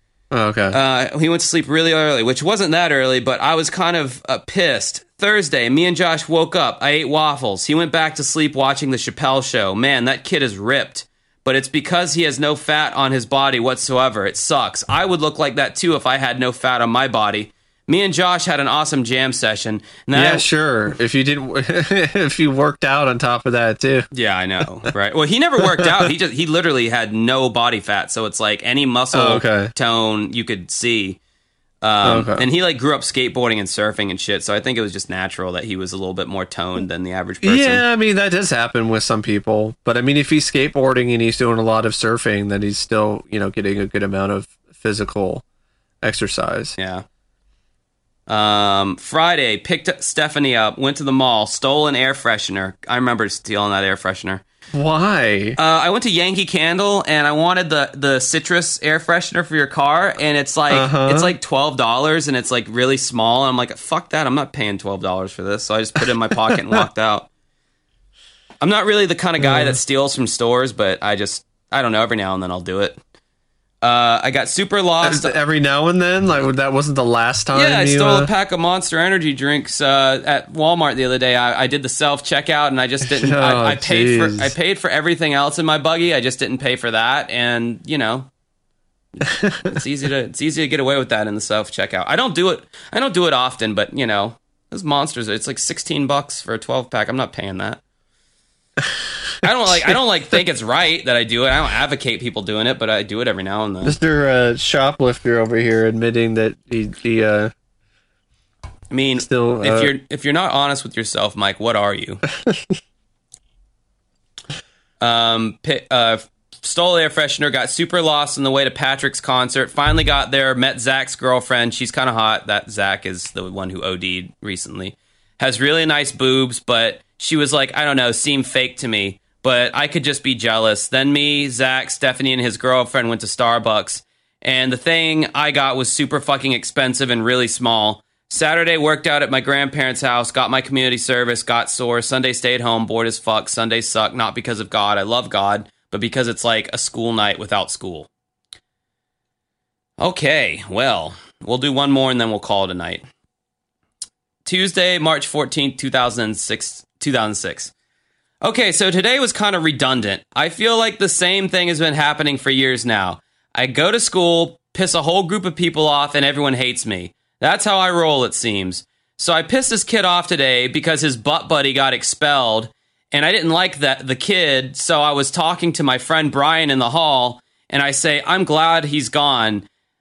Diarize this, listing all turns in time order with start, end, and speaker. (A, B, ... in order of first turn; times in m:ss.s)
0:00.3-0:00.8 A
0:00.7-0:20.5 B
0:20.1-0:24.1 A
0:24.1-0:31.2 B
0:25.6-0:26.1 A
0:29.1-0:29.7 A
0:31.8-0:37.8 B
0:32.0-0:32.4 A
0:37.4-0:45.4 A
0:46.0-0:46.7 A
0:46.8-0:47.0 B
0:48.3-0:54.4 B
0:54.7-0:55.6 A
0:55.6-1:07.3 B
1:00.7-1:01.3 A
1:08.6-1:13.0 B
1:09.4-1:09.8 A
1:13.8-1:15.4 B
1:15.0-1:18.3 A
1:17.5-1:28.3 B
1:23.0-1:24.5 A
1:29.3-1:29.8 A
1:29.6-1:37.8 B
1:39.4-1:44.0 B
1:39.6-1:40.0 A
1:43.8-1:47.5 A
1:48.9-1:52.2 B
1:49.2-1:49.9 A
1:55.0-2:28.1 B
2:30.0-2:33.0 B
2:34.4-2:37.7 B
2:38.4-2:59.6 B